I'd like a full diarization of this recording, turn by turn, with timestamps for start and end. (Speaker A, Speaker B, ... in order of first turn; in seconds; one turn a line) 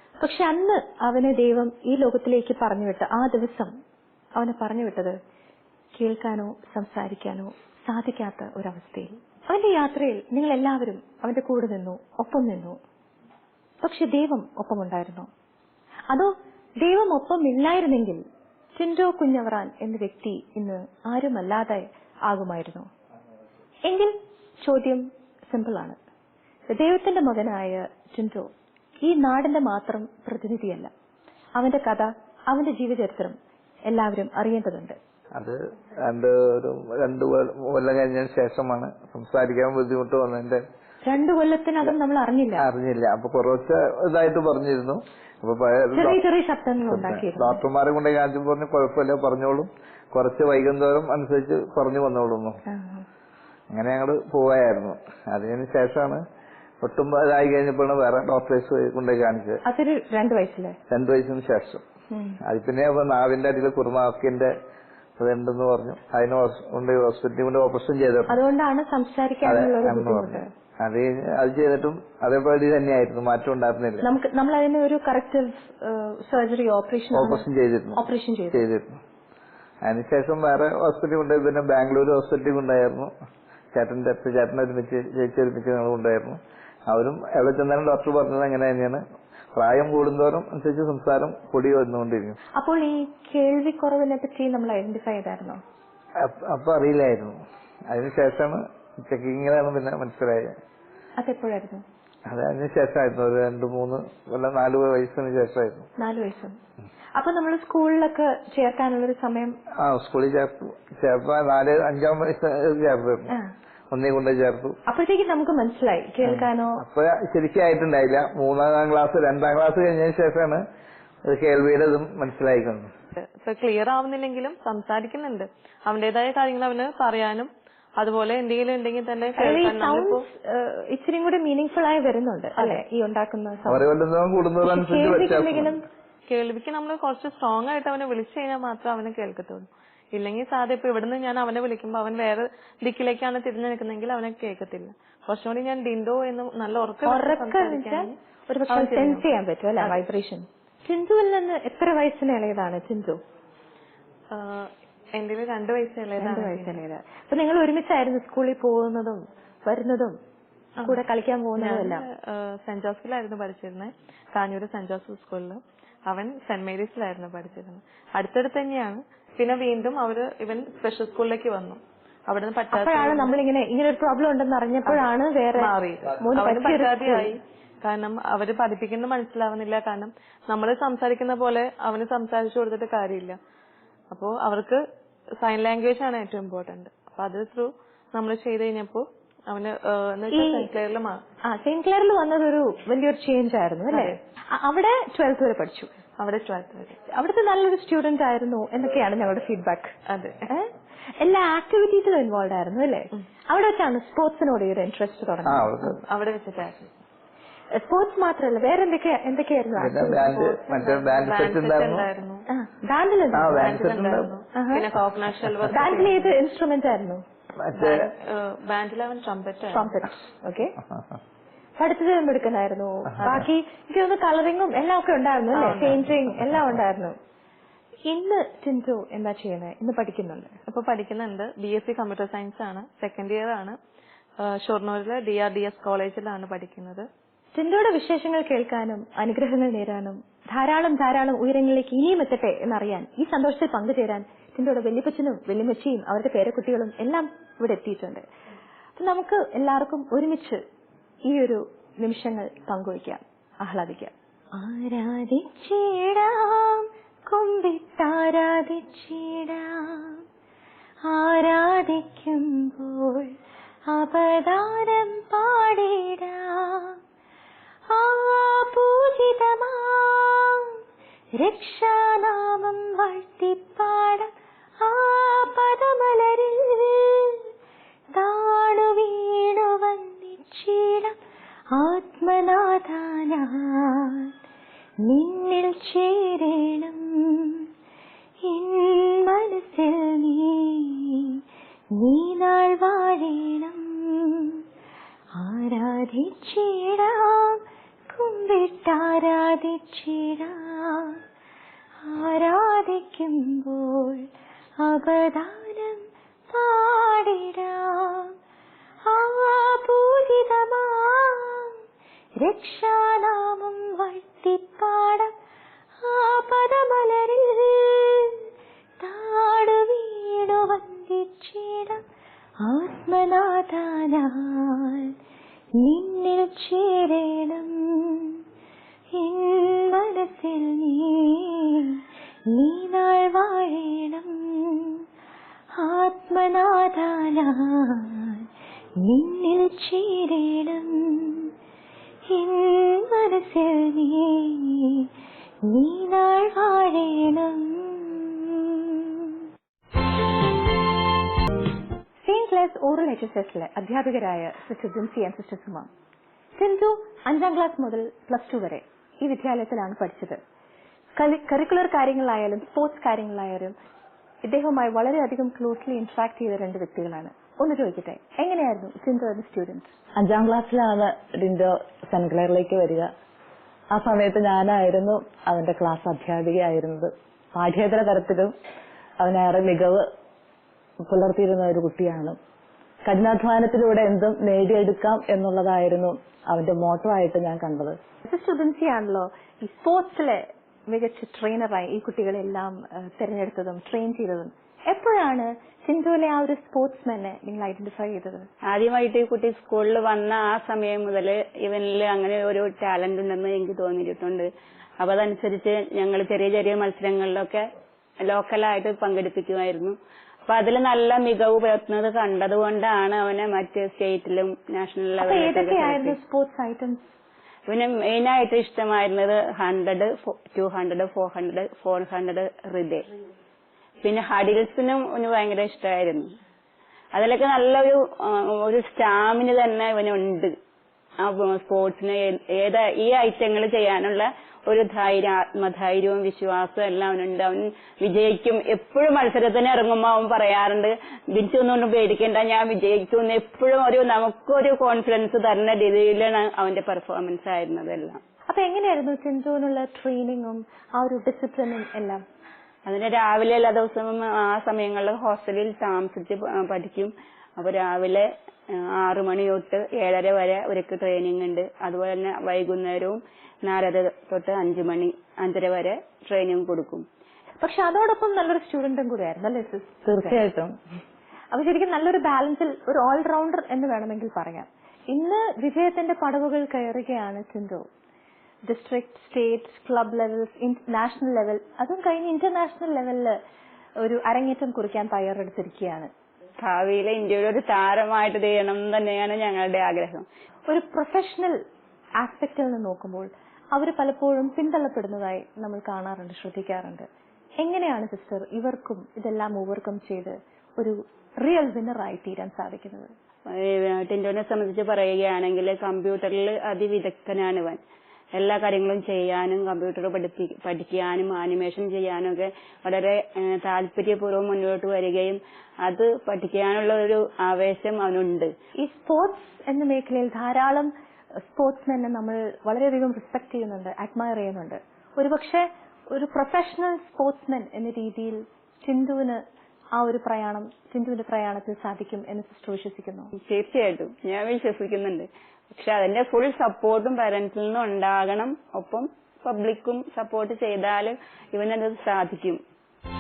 Speaker A: 0.2-3.7
Speaker A: 4.3-5.2
Speaker A: 6.0-12.8
Speaker A: 13.8-15.3
Speaker A: 16.1-18.2
Speaker A: 18.8-22.9
Speaker A: 23.8-26.0
Speaker A: 26.7-28.5
Speaker A: 29.0-30.9
Speaker A: 31.6-33.4
Speaker A: 33.9-35.0
Speaker B: 35.3-40.6
Speaker A: 41.0-42.6
Speaker B: 42.6-46.2
Speaker A: 45.9-47.6
Speaker B: 46.9-52.6
Speaker A: 52.7-53.0
Speaker B: 53.7-56.2
Speaker B: 56.8-59.6
Speaker A: 59.6-60.8
Speaker B: 60.9-61.8
Speaker A: 62.1-62.4
Speaker B: 62.4-64.5
Speaker B: 65.2-68.4
Speaker A: 68.3-70.5
Speaker B: 69.4-74.1
Speaker A: 74.0-77.4
Speaker B: 77.1-79.0
Speaker A: 78.0-78.6
Speaker B: 79.8-83.1
Speaker B: 83.7-89.0
Speaker B: 89.5-92.4
Speaker A: 92.5-95.6
Speaker B: 96.2-97.4
Speaker B: 97.9-100.5
Speaker A: 101.2-101.8
Speaker B: 102.3-105.9
Speaker A: 106.0-106.6
Speaker A: 107.2-109.6
Speaker B: 109.8-113.3
Speaker B: 113.9-114.8
Speaker A: 114.8-116.8
Speaker B: 116.2-120.6
Speaker B: 121.2-122.9
Speaker C: 123.1-130.2
Speaker A: 129.4-133.8
Speaker C: 132.6-132.8
Speaker B: 133.7-135.8
Speaker A: 134.7-135.8
Speaker C: 136.3-148.1
Speaker A: 147.0-153.2
Speaker C: 148.7-149.2
Speaker C: 154.3-156.8
Speaker A: 156.2-160.2
Speaker A: 160.8-162.0
Speaker C: 161.6-173.3
Speaker A: 172.7-177.3
Speaker C: 174.8-183.4
Speaker C: 184.1-184.8
Speaker C: 185.4-191.2
Speaker A: 190.3-190.7
Speaker A: 191.4-195.9
Speaker C: 193.9-194.2
Speaker C: 196.2-197.0
Speaker A: 197.1-199.9
Speaker C: 200.1-200.4
Speaker A: 200.5-205.9
Speaker B: 205.4-206.0
Speaker C: 206.0-206.9
Speaker A: 207.7-210.5
Speaker B: 209.8-212.1
Speaker C: 210.3-212.4
Speaker A: 212.5-213.7
Speaker B: 213.3-214.3
Speaker C: 213.5-216.3
Speaker A: 214.5-214.9
Speaker A: 215.7-217.2
Speaker B: 217.6-218.1
Speaker C: 217.7-219.9
Speaker A: 219.7-220.8
Speaker A: 221.8-227.2
Speaker C: 225.5-226.0
Speaker A: 228.1-230.5
Speaker C: 230.7-233.8
Speaker C: 234.4-237.1
Speaker A: 237.5-248.2
Speaker A: 248.9-250.6
Speaker A: 251.2-260.2
Speaker A: 261.1-263.4
Speaker A: 263.9-267.0
Speaker A: 267.9-270.8
Speaker A: 271.4-277.4
Speaker A: 278.1-281.2
Speaker A: 281.7-284.3
Speaker A: 285.0-287.6
Speaker A: 288.4-291.2
Speaker A: 291.9-294.6
Speaker A: 295.4-301.2
Speaker A: 302.0-304.3
Speaker A: 304.8-308.3
Speaker A: 309.1-311.8
Speaker A: 312.4-315.3
Speaker A: 316.0-318.4
Speaker A: 319.0-322.0
Speaker A: 322.6-325.1
Speaker A: 325.8-328.4
Speaker A: 329.1-335.0
Speaker A: 335.8-338.4
Speaker A: 339.0-341.5
Speaker A: 342.3-345.1
Speaker A: 345.7-349.0
Speaker A: 352.2-355.9
Speaker A: 356.6-360.4
Speaker A: 361.1-363.7
Speaker A: 364.4-369.9
Speaker D: 370.2-373.1
Speaker D: 373.9-378.5
Speaker D: 379.2-380.1
Speaker D: 381.0-382.4
Speaker D: 383.0-388.0
Speaker A: 388.2-398.5
Speaker E: 398.7-404.5
Speaker E: 405.0-407.6
Speaker E: 408.2-409.9
Speaker E: 410.5-416.1
Speaker A: 415.2-417.1
Speaker E: 417.7-423.1
Speaker E: 424.0-426.3
Speaker E: 427.1-430.5
Speaker E: 431.2-448.2
Speaker A: 448.5-452.2
Speaker E: 452.9-467.0
Speaker A: 467.6-470.4
Speaker D: 470.1-470.8
Speaker A: 471.5-477.8
Speaker A: 478.6-483.4
Speaker A: 484.0-486.1
Speaker E: 486.6-490.2
Speaker A: 490.7-491.6
Speaker A: 492.2-497.1
Speaker A: 497.6-503.1
Speaker E: 503.5-507.8
Speaker E: 508.3-518.5
Speaker A: 518.8-529.4
Speaker A: 529.9-533.3
Speaker E: 533.4-542.6